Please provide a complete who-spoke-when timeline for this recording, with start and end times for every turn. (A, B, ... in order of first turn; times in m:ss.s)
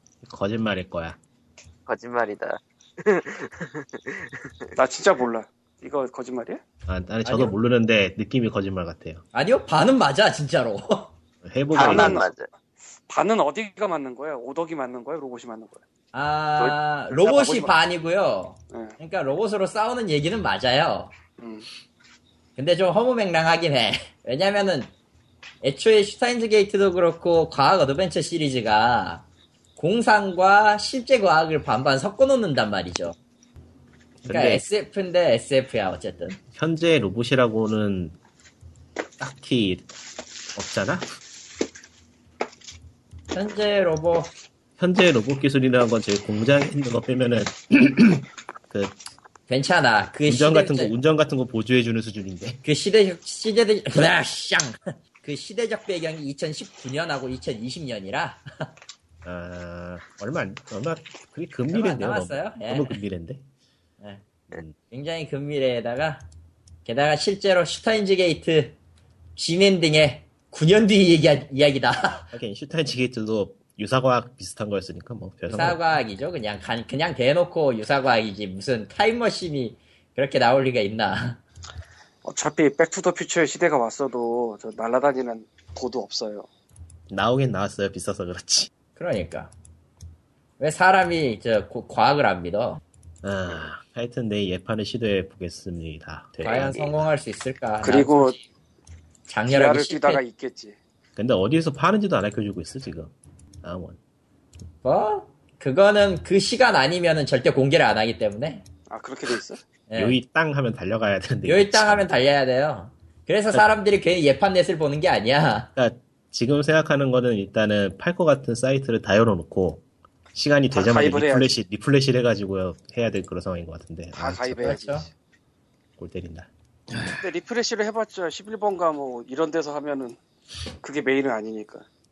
0:00.2-0:01.2 A
0:01.9-0:04.7 B
0:04.8-0:06.6 C
0:06.9-0:09.2 A
0:07.2-0:07.5 D
0:09.3-0:11.1 D
0:11.4-0:12.2 A
0:11.7-0:12.5 B
0:11.7-0:12.3 C
0:13.1-0:15.8 C
0:16.1-0:21.1 D
0:16.6-0:17.7 C
0:21.4-0:21.6 C
0:22.6-0:24.9 D
0:25.6-0:29.2 D
0:29.8-0:33.2 D
0:34.2-0:34.6 A
0:34.2-0:36.4 D
0:36.5-0:38.1 A
0:39.2-0:39.8 A
0:40.5-0:41.0 A
0:43.3-0:44.3 D
0:44.8-0:49.0 A
0:49.5-0:50.9 D
0:50.3-0:52.6 A
0:52.6-0:58.4 D
0:59.2-1:03.4 A
1:01.7-1:03.0 D
1:04.9-1:06.2 D
1:06.8-1:08.8 D
1:09.4-1:12.3 D
1:12.3-1:15.8 A
1:15.5-1:21.4 D
1:22.2-1:26.5 C
1:27.1-1:28.7 A
1:29.0-1:29.5 D
1:30.6-1:32.8 D
1:33.2-1:37.1 A
1:36.4-1:38.4 D
1:37.8-1:38.4 C
1:39.3-1:40.2 D
1:39.5-1:40.8 C
1:41.2-1:43.1 A
1:43.6-1:44.0 A
1:44.8-1:48.6 D
1:48.9-1:49.6 C
1:49.9-1:50.2 D
1:50.0-1:52.1 A
1:51.4-1:55.7 D
1:55.8-2:04.8 A
2:00.7-2:01.5 C
2:04.2-2:05.0 C
2:04.6-2:05.1 D
2:06.0-2:07.1 A
2:07.0-2:10.2 C
2:10.8-2:11.8 C